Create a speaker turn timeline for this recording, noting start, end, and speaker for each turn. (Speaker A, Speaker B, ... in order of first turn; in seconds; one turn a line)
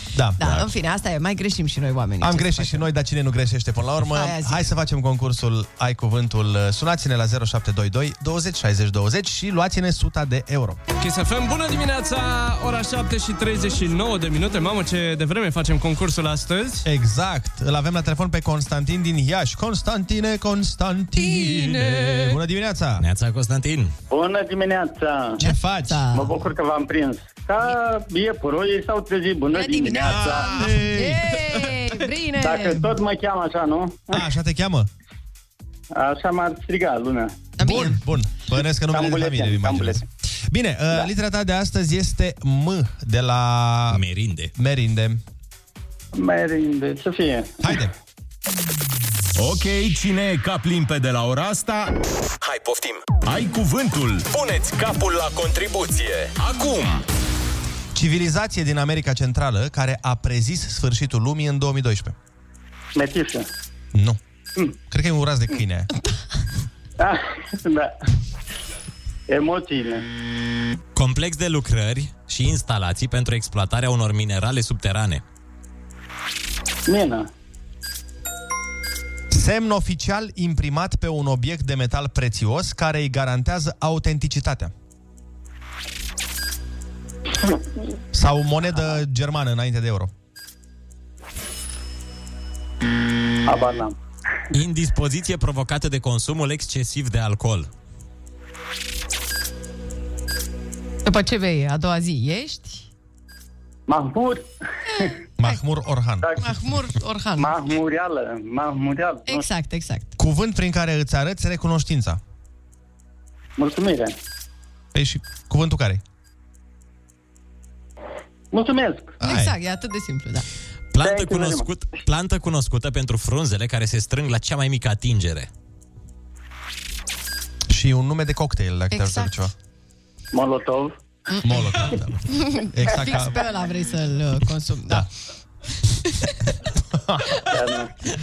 Speaker A: 0.1-0.4
Speaker B: 0.4-2.9
Speaker A: 2.2-10.8
Speaker B: 4.1-4.7
Speaker C: 11.0-16.8
Speaker A: 16.8-23.0
Speaker C: 21.4-22.2
Speaker D: 23.0-23.9
Speaker E: 24.1-25.4
Speaker B: 25.4-26.3
Speaker A: 25.4-26.1
Speaker E: 26.1-30.6
Speaker B: 29.5-32.9
Speaker A: 30.0-31.6
Speaker E: 32.4-34.3
Speaker A: 34.1-34.9
Speaker E: 35.9-37.5
Speaker B: 37.6-38.0
Speaker A: 37.6-44.0
Speaker E: 38.9-40.0
Speaker D: 43.9-44.5
Speaker A: 44.5-45.2
Speaker E: 46.1-47.6
Speaker A: 47.6-47.9
Speaker F: 49.4-51.9
Speaker F: 52.4-57.0
Speaker A: 57.9-62.1
Speaker E: 62.9-63.5
Speaker A: 63.9-64.2
Speaker A: 64.9-65.9
Speaker E: 67.0-67.9
Speaker E: 69.3-70.0
Speaker D: 70.9-75.2
Speaker E: 76.9-77.3
Speaker A: 79.3-84.7
Speaker A: 88.1-90.1
Speaker E: 93.5-94.0
Speaker D: 94.5-97.7
Speaker B: 101.0-102.9
Speaker E: 103.9-104.5
Speaker A: 105.4-106.3
Speaker B: 106.4-107.5
Speaker E: 107.4-109.5
Speaker B: 109.3-110.2
Speaker A: 110.2-112.2
Speaker E: 113.6-114.2
Speaker A: 114.9-116.0
Speaker E: 118.5-119.2
Speaker A: 119.2-119.5
Speaker B: 119.2-120.5
Speaker D: 120.9-125.5
Speaker E: 121.0-121.7
Speaker A: 127.7-129.5
Speaker B: 128.9-129.3
Speaker E: 130.3-130.9
Speaker B: 131.3-135.1
Speaker A: 131.4-133.4
Speaker B: 136.0-136.5
Speaker A: 136.9-137.4
Speaker E: 137.5-137.9